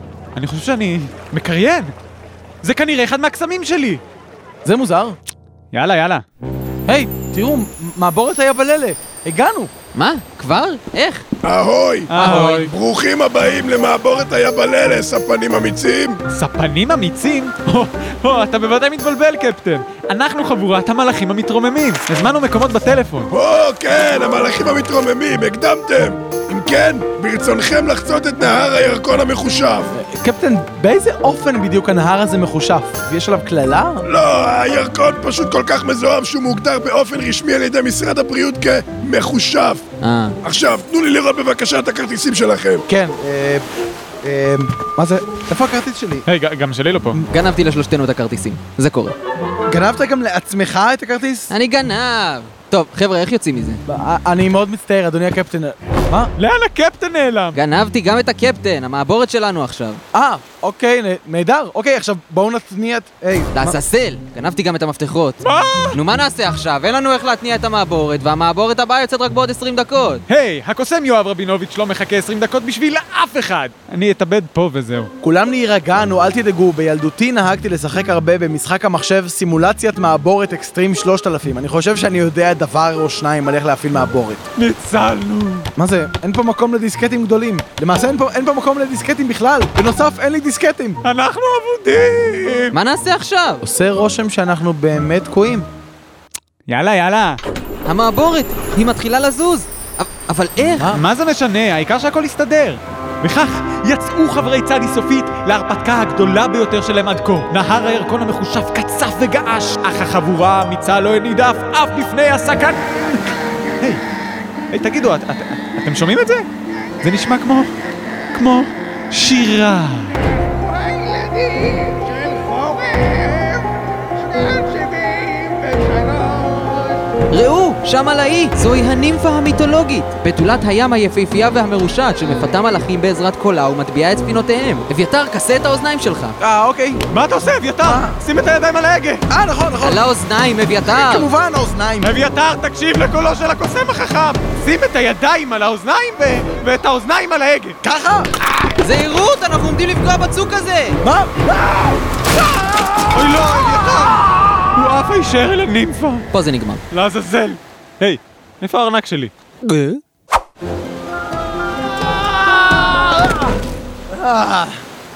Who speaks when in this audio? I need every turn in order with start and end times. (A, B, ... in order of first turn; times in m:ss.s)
0:00.4-0:01.9 A
0:02.6-0:04.0 A
0:04.6-0:05.2 B
0:05.7-0:06.2 A
0:06.9-0:09.7 B
0:09.9-0:11.2 C
0:11.4-0:12.1 D
0:12.1-0:12.7 A
0:12.2-0:12.6 C
0:12.6-0:16.2 D
0:16.3-0:23.3 A
0:23.3-0:29.9 D
0:29.9-0:34.0 B
0:34.1-0:39.8 D
0:40.0-0:40.3 C
0:40.4-0:42.8 D
0:42.9-0:43.6 B
0:44.2-0:46.2 B
0:46.3-0:47.2 A
0:47.3-0:49.1 C
0:49.7-0:51.5 B
0:51.5-0:53.8 C
0:53.8-0:56.3 B
0:56.4-0:57.6 A
0:57.5-1:00.0 C
1:00.1-1:03.8 B
1:03.5-1:05.4 C
1:05.4-1:06.0 A
1:05.9-1:10.2 C
1:10.3-1:15.1 A
1:15.2-1:24.4 B
1:24.6-1:25.7 A
1:25.8-1:31.0 B
1:31.0-1:32.7 A
1:32.7-1:33.6 C
1:33.6-1:35.7 B
1:36.7-1:37.4 A
1:37.8-1:40.9 C
1:40.8-1:41.0 B
1:41.0-1:53.2 A
1:54.7-1:56.5 A
1:57.0-1:57.7 A
1:58.3-2:00.2 A
2:00.3-2:07.0 E
2:07.3-2:16.4 C
2:16.4-2:17.0 B
2:17.1-2:19.2 A
2:17.8-2:18.2 B
2:19.3-2:20.0 B
2:19.8-2:21.3 C
2:20.8-2:22.1 B
2:22.0-2:27.8 A
2:27.8-2:28.3 B
2:28.8-2:31.0 C
2:31.0-2:32.0 B
2:33.1-2:36.2 A
2:36.3-2:36.8 C
2:36.9-2:39.3 A
2:39.6-2:40.0 C
2:44.1-2:44.8 B